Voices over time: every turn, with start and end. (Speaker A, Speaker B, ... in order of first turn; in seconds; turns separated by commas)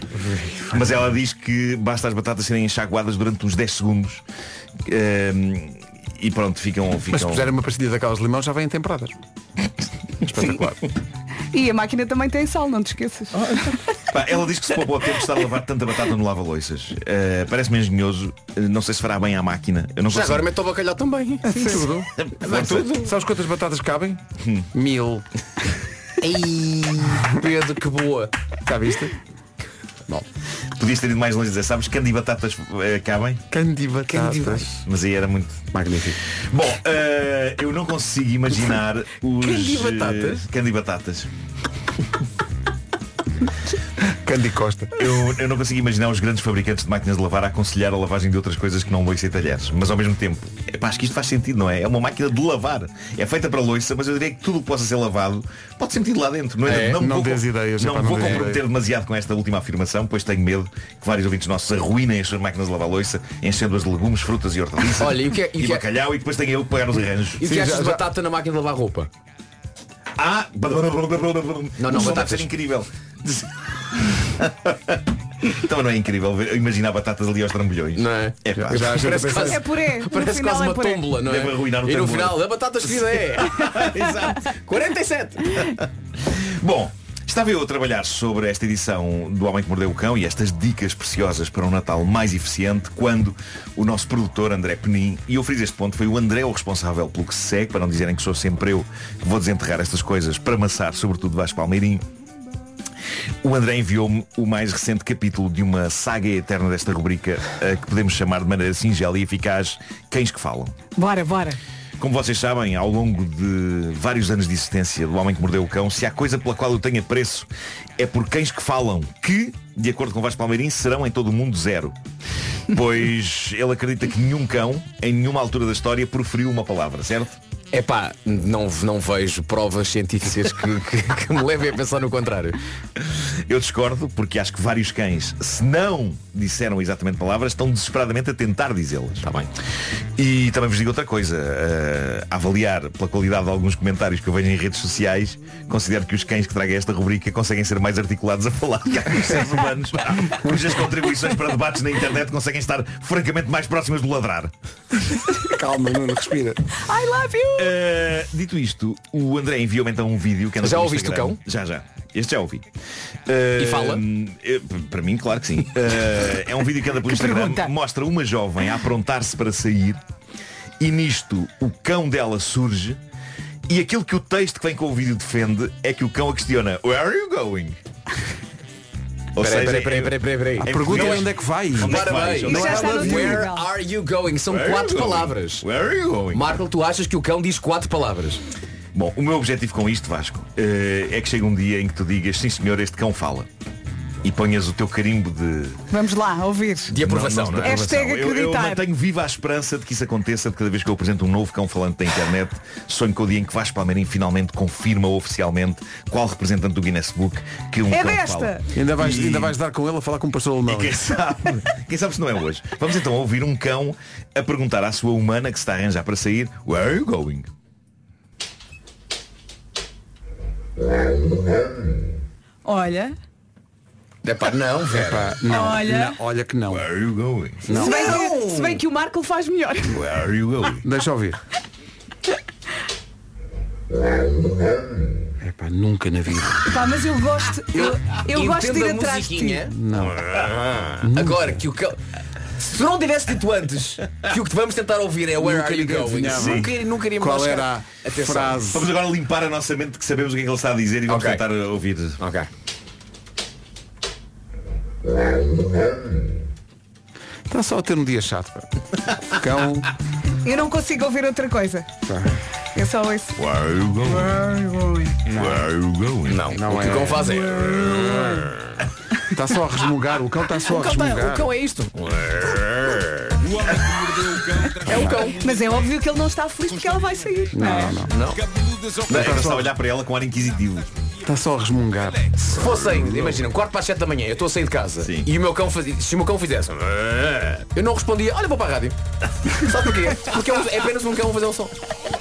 Speaker A: 0.7-4.2, Speaker A: 4.8-7.5, Speaker B: 7.1-9.2, Speaker B: 10.2-10.8, Speaker C: 11.5-13.5, Speaker B: 13.4-13.7, Speaker A: 14.1-20.5, Speaker D: 20.1-21.8, Speaker B: 21.5-24.2, Speaker C: 21.5-21.9, Speaker A: 22.2-22.9, Speaker D: 22.4-23.1, Speaker A: 24.4-24.7, Speaker B: 24.7-25.2, Speaker D: 26.2-28.3, Speaker B: 28.6-29.1, Speaker A: 30.8-33.4, Speaker B: 33.5-34.8, Speaker D: 34.2-34.6, Speaker A: 34.8-35.7, Speaker B: 35.7-36.2, Speaker A: 36.4-41.3, Speaker D: 39.4-40.5, Speaker B: 44.0-45.0, Speaker A: 45.0-67.4, Speaker D: 56.6-57.1, Speaker B: 56.8-58.7, Speaker D: 65.0-65.8, Speaker D: 67.4-69.1, Speaker B: 67.4-68.1, Speaker A: 70.2-79.4, Speaker D: 71.8-72.5, Speaker D: 78.0-85.7, Speaker B: 78.6-79.6, Speaker C: 79.5-81.0, Speaker A: 81.2-84.4, Speaker A: 85.6-102.0, Speaker A: 103.4-110.8, Speaker C: 111.0-111.6, Speaker A: 112.0-122.0, Speaker A: 122.7-127.4, Speaker D: 127.7-132.6, Speaker A: 133.1-139.3, Speaker D: 139.2-139.5, Speaker A: 140.2-154.5, Speaker B: 155.4-156.7, Speaker C: 156.8-157.8, Speaker A: 157.6-162.7, Speaker D: 160.6-161.4, Speaker A: 163.3-170.0, Speaker D: 163.6-164.0, Speaker C: 167.0-167.7, Speaker A: 170.8-173.0, Speaker A: 173.7-177.8, Speaker A: 179.4-183.0, Speaker D: 179.4-185.7, Speaker B: 180.6-183.5, Speaker C: 182.4-183.7, Speaker A: 184.5-186.6, Speaker D: 186.3-188.4, Speaker A: 188.9-193.5, Speaker A: 194.2-195.8, Speaker C: 195.9-197.0, Speaker D: 196.9-197.8, Speaker A: 196.9-209.6, Speaker C: 197.6-198.8, Speaker C: 207.9-208.7, Speaker B: 208.7-211.0, Speaker A: 210.7-217.5, Speaker C: 222.7-223.2, Speaker D: 224.2-225.4, Speaker B: 224.9-226.9, Speaker C: 225.5-226.2, Speaker A: 226.7-227.7, Speaker B: 227.6-228.2, Speaker D: 227.7-228.8, Speaker C: 227.7-230.0, Speaker A: 229.9-230.8, Speaker B: 230.8-231.4, Speaker B: 235.4-236.7, Speaker C: 236.7-239.6, Speaker D: 237.7-239.7, Speaker B: 239.7-240.2, Speaker D: 240.2-242.0, Speaker B: 241.0-241.6, Speaker D: 242.6-248.8, Speaker B: 245.4-248.9, Speaker A: 246.3-246.7, Speaker A: 248.7-252.2, Speaker D: 251.1-251.4, Speaker D: 252.2-252.5, Speaker B: 257.5-258.7, Speaker B: 259.3-259.9, Speaker C: 260.4-261.9, Speaker B: 262.1-262.4, Speaker C: 262.8-263.4, Speaker A: 263.4-264.5, Speaker C: 264.1-265.2, Speaker B: 265.2-265.7, Speaker A: 265.3-266.6, Speaker D: 266.3-268.6, Speaker B: 266.5-268.4, Speaker C: 267.6-268.2, Speaker B: 269.3-271.5, Speaker D: 270.7-273.1, Speaker A: 273.7-274.8, Speaker D: 274.8-275.4, Speaker B: 274.9-275.1, Speaker C: 274.9-278.0, Speaker B: 277.5-279.7, Speaker D: 278.1-278.4, Speaker A: 279.1-281.0, Speaker D: 279.1-279.5, Speaker B: 281.2-283.4, Speaker D: 282.5-289.0, Speaker A: 285.0-285.3, Speaker D: 289.6-291.7